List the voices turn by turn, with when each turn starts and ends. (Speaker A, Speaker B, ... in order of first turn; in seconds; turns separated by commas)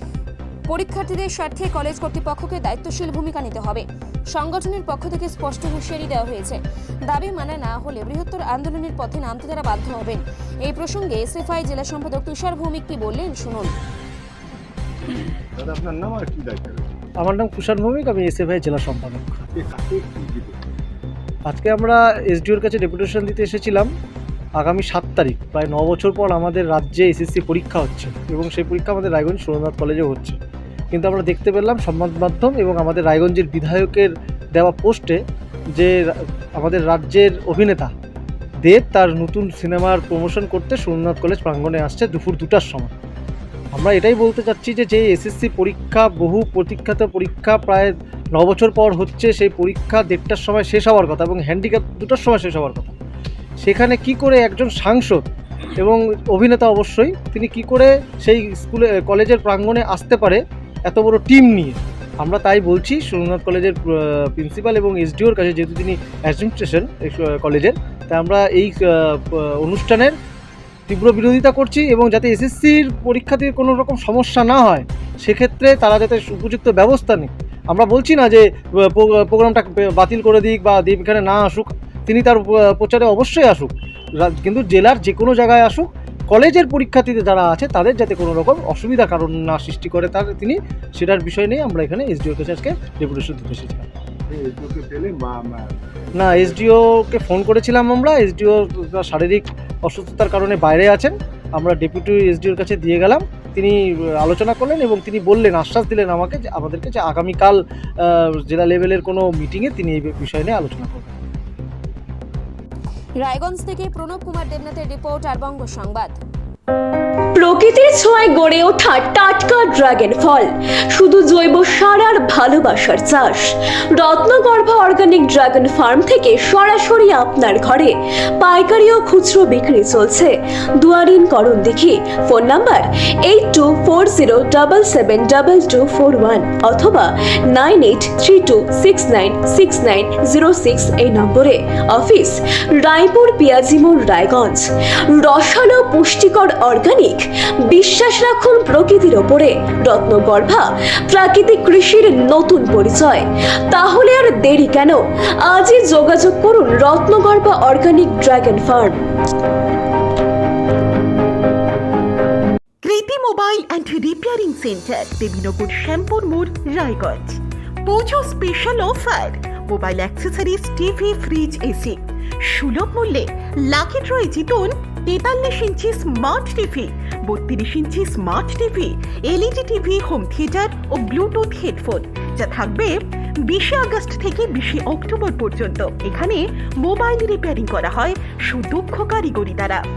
Speaker A: 0.7-13.7, Speaker B: 15.6-16.9, Speaker C: 17.2-19.4, Speaker B: 19.5-20.6, Speaker C: 21.5-23.9, Speaker C: 24.6-30.4, Speaker C: 30.9-35.2, Speaker C: 35.7-37.9, Speaker C: 38.6-42.9, Speaker C: 43.7-52.9, Speaker C: 53.6-55.2, Speaker C: 55.8-70.2, Speaker C: 70.9-93.9, Speaker B: 94.3-96.7, Speaker C: 96.2-111.2, Speaker A: 113.2-116.2, Speaker D: 117.3-159.0, Speaker E: 162.8-182.9, Speaker E: 183.5-189.8